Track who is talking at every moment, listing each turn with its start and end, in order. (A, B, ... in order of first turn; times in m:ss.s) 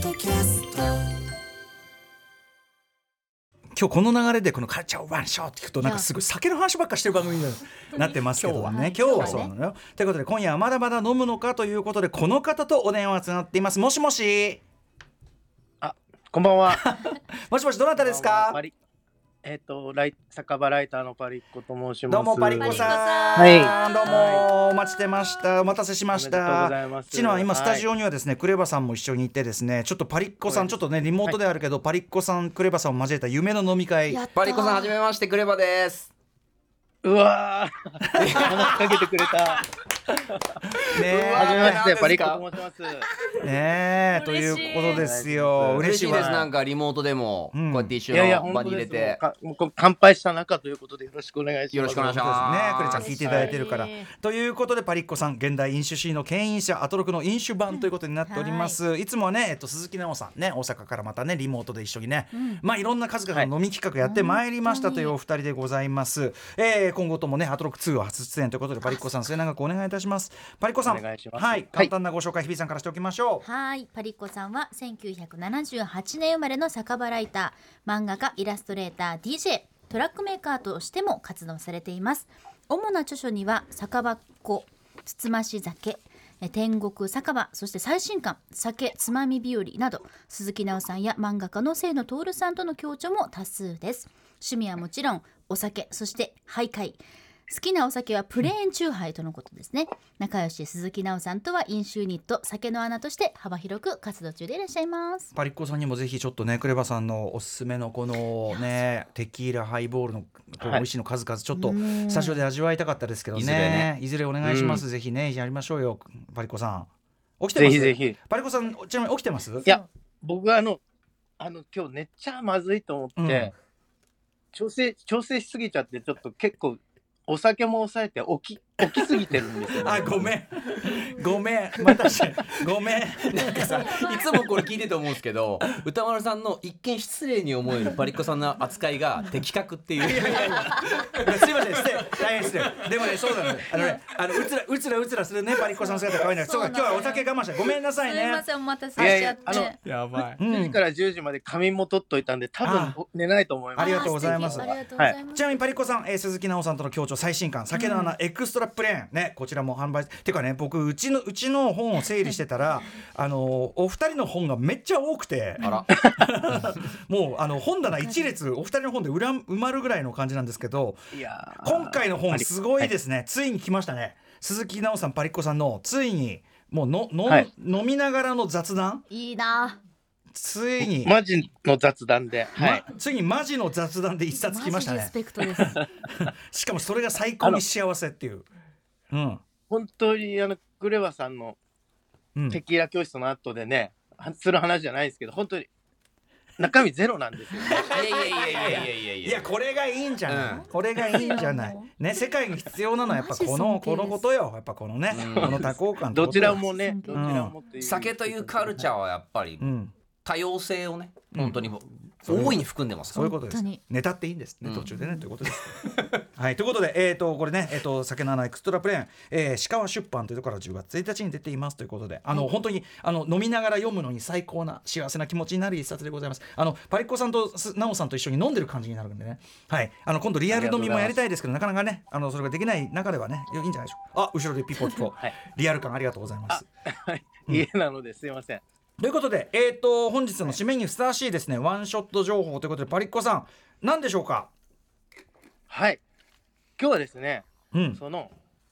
0:03.8-0:14.6 A
0:05.8-0:06.1 B
0:08.3-0:09.5 C
0:08.6-0:09.5 B
0:15.8-0:16.8 D
0:16.7-0:18.6 A
0:18.0-0:18.7 D
0:19.4-0:24.5 D
0:22.1-0:34.2 A
0:22.6-0:24.2 B
0:26.1-0:27.9 D
0:30.4-0:31.4 D
0:34.1-0:35.0 B
0:34.3-0:36.1 C
0:37.0-0:39.6 D
0:38.2-0:39.0 C
0:40.3-0:40.6 D
0:40.9-0:41.8 A
0:41.0-0:42.4 C
0:41.3-0:43.1 D
0:43.4-0:46.4 A
0:44.1-0:45.1 B
0:44.9-0:46.5 D
0:45.8-0:49.2 C
0:47.5-0:48.0 A
0:48.1-0:52.4 D
0:51.7-0:53.2 C
0:52.1-1:13.4 A
0:52.9-0:54.1 B
0:53.2-0:53.5 D
0:57.7-0:58.8 B
1:02.3-1:02.6 B
1:04.0-1:05.1 B
1:08.8-1:09.2 B
1:10.8-1:11.9 D
1:13.4-1:45.3 B
1:45.3-1:56.9 A
1:50.6-1:50.8 D
1:51.5-1:52.4 B
1:53.3-1:53.9 C
1:54.4-1:54.8 D
1:57.4-1:59.7 A
1:57.6-1:58.2 D
1:59.6-1:59.9 B
1:59.6-2:00.8 D
2:01.4-2:03.5 D
2:03.2-2:03.5 A
2:04.5-2:10.3 D
2:08.9-2:09.2 A
2:09.8-2:14.2 A
2:13.3-2:21.9 C
2:20.0-2:28.4 A
2:23.7-2:24.0 B
2:25.7-2:27.3 B
2:28.0-2:29.8 B
2:29.0-2:29.7 D
2:29.8-2:30.4 C
2:30.4-2:30.8 A
2:30.4-2:35.2 D
2:32.6-2:33.0 A
2:33.8-2:34.8 A
2:33.8-2:35.6 B
2:35.3-2:59.1 A
2:37.7-2:38.1 B
2:42.0-2:42.4 B
2:45.6-2:45.8 B
2:45.6-2:45.9 C
2:48.0-2:48.4 B
2:51.1-2:52.9 D
2:59.1-2:59.8 B
3:00.3-3:01.1 A
3:00.8-3:02.8 D
3:02.6-3:08.5 A
3:04.3-3:05.8 B
3:09.1-3:09.4 A
3:09.7-3:11.6 D
3:12.3-3:12.6 A
3:12.5-3:15.7 D
3:16.6-3:17.8 D
3:17.6-3:27.5 A
3:17.9-3:19.4 C
3:18.3-3:18.8 B
3:20.3-3:20.6 C
3:20.5-3:21.9 B
3:23.0-3:24.2 B
3:25.1-3:25.7 C
3:25.3-3:28.9 D
3:26.3-3:27.5 B
3:27.8-3:29.6 C
3:29.6-3:29.9 A
3:30.2-3:33.2 C
3:31.3-3:31.6 A
3:32.2-3:35.7 A
3:33.1-3:33.8 B
3:34.6-3:34.9 C
3:34.9-3:35.2 B
3:35.6-3:36.1 C
3:36.3-3:56.6 A
3:50.5-3:51.2 D
3:56.5-3:58.6 D
3:59.0-4:04.5 A
4:05.7-4:06.0 D
4:06.8-4:08.3 D
4:07.7-4:08.0 A